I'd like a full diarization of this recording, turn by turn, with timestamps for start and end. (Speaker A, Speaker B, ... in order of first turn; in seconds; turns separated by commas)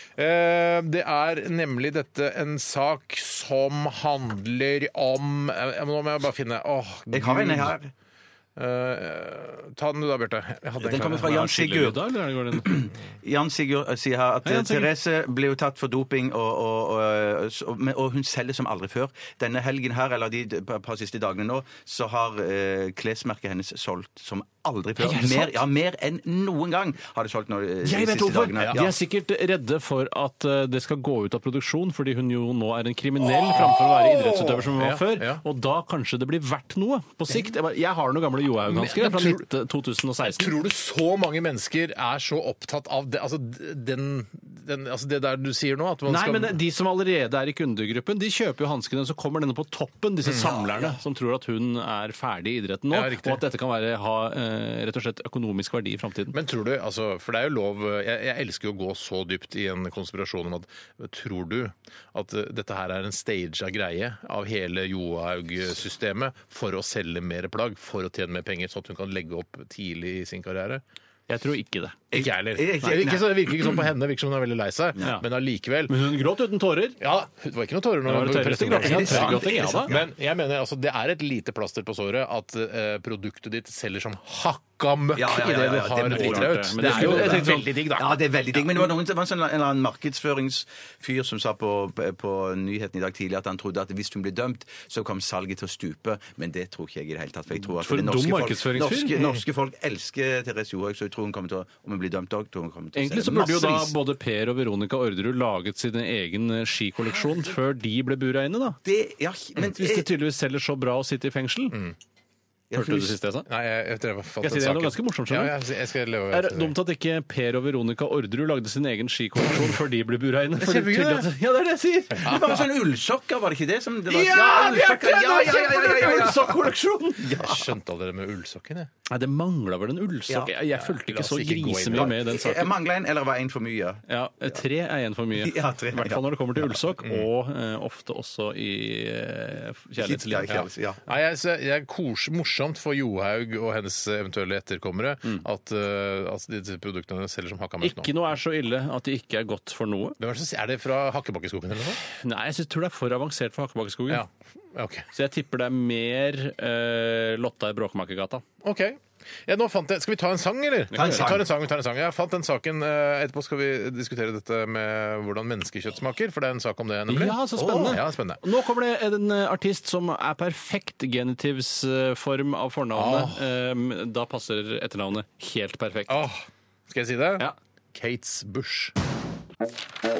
Speaker A: 0.1-7.8, Speaker B: 7.1-7.9, Speaker A: 8.6-11.4, Speaker B: 10.8-12.0, Speaker C: 11.1-12.9, Speaker B: 12.5-28.9, Speaker C: 14.4-14.9, Speaker C: 25.0-25.6, Speaker C: 27.8-40.5, Speaker A: 33.5-35.4, Speaker A: 38.6-39.4, Speaker A: 40.2-46.6, Speaker C: 46.1-56.4, Speaker B: 50.4-50.9, Speaker A: 52.9-53.4, Speaker A: 56.3-70.8, Speaker C: 71.3-72.0, Speaker B: 72.1-73.8, Speaker A: 72.1-76.0, Speaker C: 75.9-77.0, Speaker A: 77.0-88.8, Speaker C: 78.0-79.9, Speaker B: 78.7-80.1, Speaker B: 85.1-103.9, Speaker C: 86.0-87.7, Speaker C: 97.6-99.2, Speaker C: 102.9-108.8, Speaker B: 108.8-110.1, Speaker C: 109.6-111.8, Speaker B: 112.7-113.2, Speaker C: 112.7-113.5, Speaker A: 113.5-116.7, Speaker C: 114.4-115.5, Speaker C: 116.3-122.4, Speaker A: 120.6-121.3, Speaker B: 122.2-127.7, Speaker A: 122.2-122.6, Speaker C: 124.1-127.3, Speaker A: 127.4-128.9, Speaker C: 129.1-132.7, Speaker A: 130.7-132.2, Speaker B: 131.9-134.0, Speaker C: 134.1-140.6, Speaker B: 135.4-136.2, Speaker B: 140.0-141.0, Speaker A: 140.5-148.1, Speaker C: 147.8-150.2, Speaker A: 150.2-152.0, Speaker C: 152.0-154.2, Speaker A: 154.1-155.1, Speaker C: 155.1-158.4, Speaker A: 158.6-168.4, Speaker C: 160.9-161.3, Speaker B: 160.9-161.4, Speaker C: 167.1-176.2, Speaker B: 167.6-168.0, Speaker A: 172.9-173.4, Speaker A: 176.1-178.9